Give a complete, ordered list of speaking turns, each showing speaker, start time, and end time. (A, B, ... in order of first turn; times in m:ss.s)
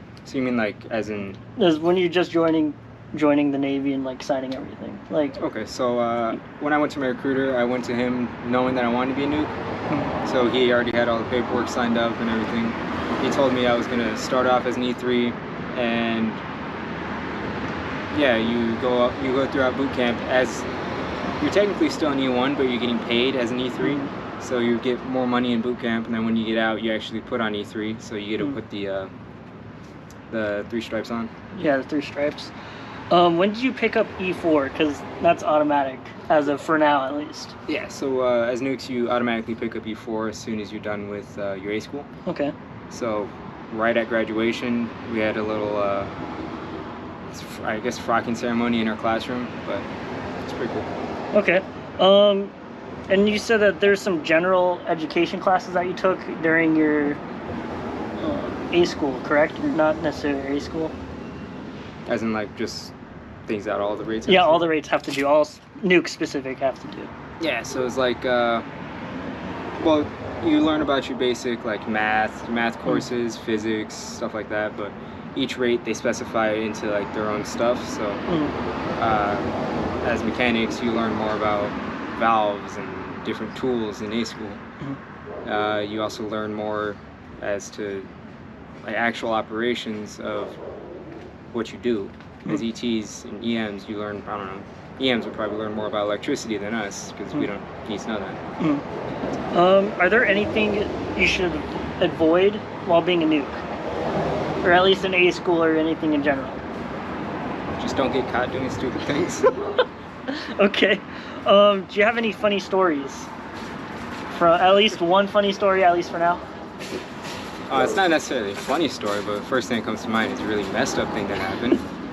0:00.2-0:01.4 A
0:01.6-0:05.4 B
0:05.4-0:09.5 A
0:10.2-0:16.4 A
0:18.1-0:20.7 A
0:21.4-0:29.1 A
0:23.8-0:24.1 B
0:30.3-0:31.3 A
0:31.5-0:32.5 B
0:33.1-0:37.5 B
0:37.7-0:42.1 A
0:42.2-0:42.5 B
0:42.9-0:46.1 A
0:47.3-0:49.9 A
0:50.4-0:50.9 A
0:51.3-0:52.5 B
0:53.1-0:57.2 B
0:58.2-1:00.9 B
1:02.1-1:02.9 A
1:03.5-1:04.6 A
1:04.3-1:07.1 B
1:07.4-1:08.6 A
1:09.8-1:18.2 A
1:18.3-1:18.5 B
1:19.0-1:24.6 A
1:25.4-1:28.1 A
1:28.8-1:30.6 A
1:31.5-1:38.4 A
1:38.6-1:38.8 B
1:39.5-1:43.6 B
1:44.6-1:46.6 B
1:47.8-1:49.6 A
1:50.3-1:53.3 B
1:54.3-1:56.4 B
1:57.7-2:01.8 A